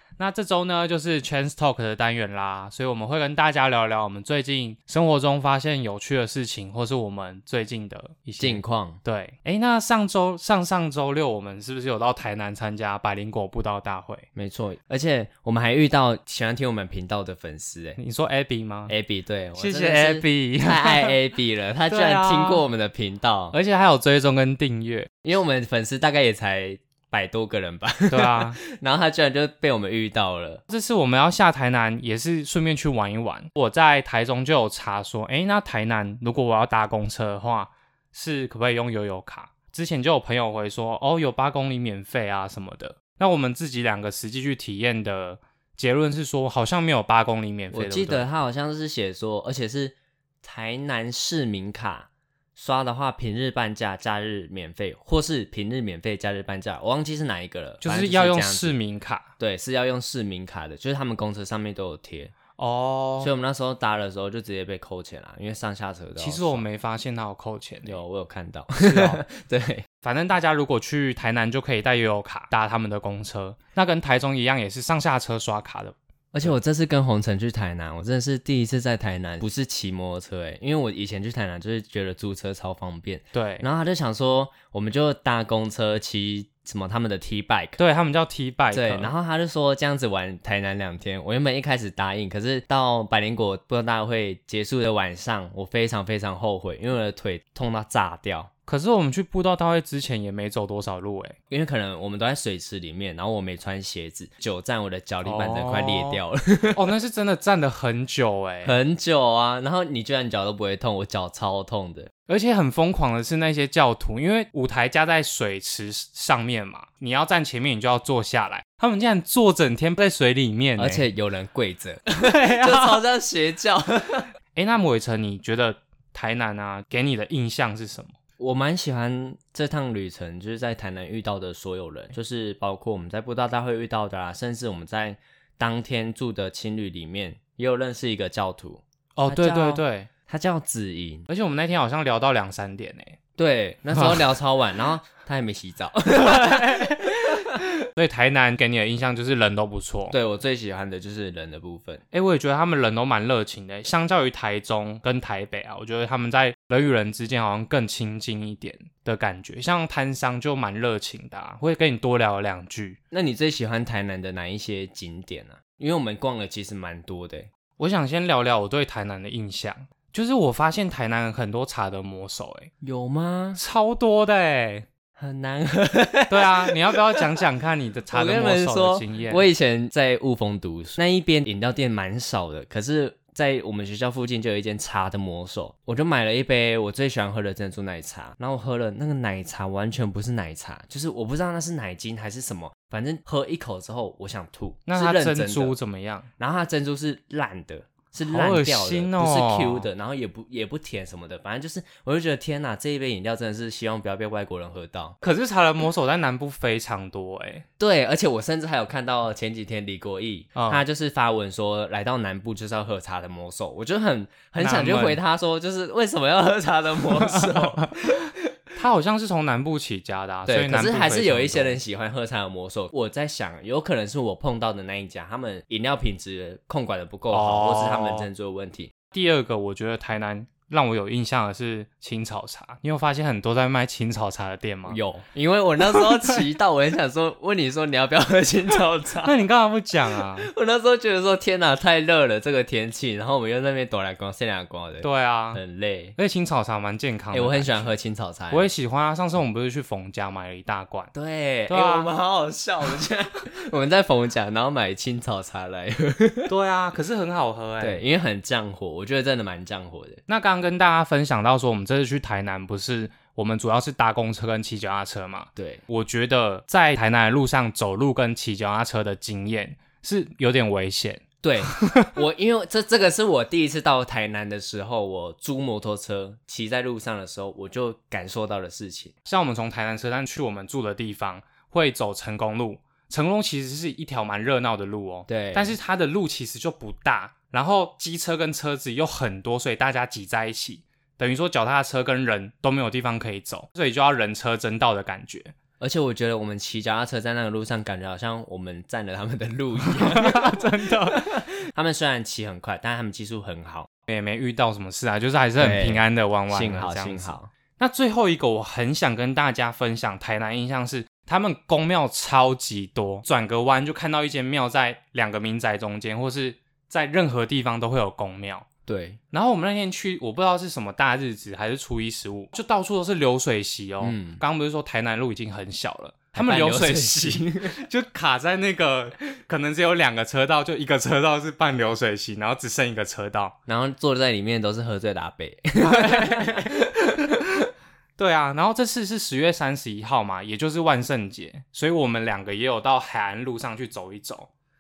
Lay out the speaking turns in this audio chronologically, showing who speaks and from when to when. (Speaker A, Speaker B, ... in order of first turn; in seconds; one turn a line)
Speaker A: 0.2-14.3
Speaker B: 8.4-9.0
Speaker B: 14.3-18.0
Speaker A: 18.0-18.9
Speaker B: 18.9-23.6
Speaker A: 19.6-21.2
Speaker A: 21.9-22.6
Speaker A: 23.5-25.1
Speaker B: 25.2-30.6
Speaker A: 28.1-28.6
Speaker A: 30.7-48.3
Speaker B: 47.7-58.8
Speaker A: 57.8-59.3
Speaker B: 59.4-62.3
Speaker A: 62.5-63.3
Speaker B: 63.2-66.6
Speaker A: 66.2-68.0
Speaker B: 67.8-69.9
Speaker A: 68.8-69.2
Speaker A: 70.0-76.5
Speaker B: 76.3-87.8
Speaker A: 83.3-83.7
Speaker A: 87.8-89.1
Speaker B: 88.7-98.5
Speaker A: 98.7-101.4
Speaker B: 101.5-106.9
Speaker A: 105.2-106.2
Speaker A: 106.8-108.8
Speaker B: 108.6-112.1
Speaker A: 112.3-121.0
Speaker B: 120.8-124.3
Speaker A: 122.2-123.0
Speaker A: 124.5-128.1
Speaker B: 128.4-141.3
Speaker A: 139.2-140.1
Speaker A: 141.3-143.2
Speaker B: 143.4-147.6
Speaker A: 144.0-144.2
Speaker A: 146.2-147.1
Speaker A: 147.9-150.2
Speaker B: 150.1-152.0
Speaker A: 152.1-163.0
Speaker B: 163.1-167.5
Speaker A: 167.8-172.7
Speaker B: 172.8-173.6
Speaker A: 173.6-174.9
Speaker B: 175.2-177.3
Speaker A: 176.3-179.5
Speaker B: 178.1-195.8
Speaker A: 194.9-196.3
Speaker B: 196.4-205.2
Speaker A: 198.2-199.9
Speaker A: 205.2-207.7
Speaker B: 207.8-218.5
Speaker A: 210.6-210.8
Speaker A: 214.6-215.2
Speaker A: 217.3-217.9
Speaker A: 218.8-221.8
Speaker B: 220.5-228.9
Speaker A: 227.3-228.3
Speaker A: 229.1-235.0
Speaker B: 234.9-239.4
Speaker A: 239.2-240.5
Speaker B: 240.1-246.2
Speaker A: 245.0-245.6
Speaker A: 246.2-247.9
Speaker B: 247.3-248.7
Speaker A: 248.5-251.1
Speaker B: 251.1-256.5
Speaker A: 251.7-252.1
Speaker A: 256.5-258.0
Speaker B: 257.8-260.2
Speaker A: 260.3-271.2
Speaker B: 265.6-265.8
Speaker B: 271.4-279.1
Speaker A: 271.8-272.1
Speaker A: 279.3-295.5
Speaker B: 285.3-285.8
Speaker B: 295.8-303.9
Speaker A: 299.9-301.3
Speaker A: 304.1-318.7
Speaker B: 305.6-307.5
Speaker B: 318.9-319.2
Speaker A: 319.3-333.6
Speaker B: 324.0-324.4
Speaker B: 326.3-327.8
Speaker B: 333.7-337.3
Speaker A: 335.9-337.3
Speaker A: 338.2-344.5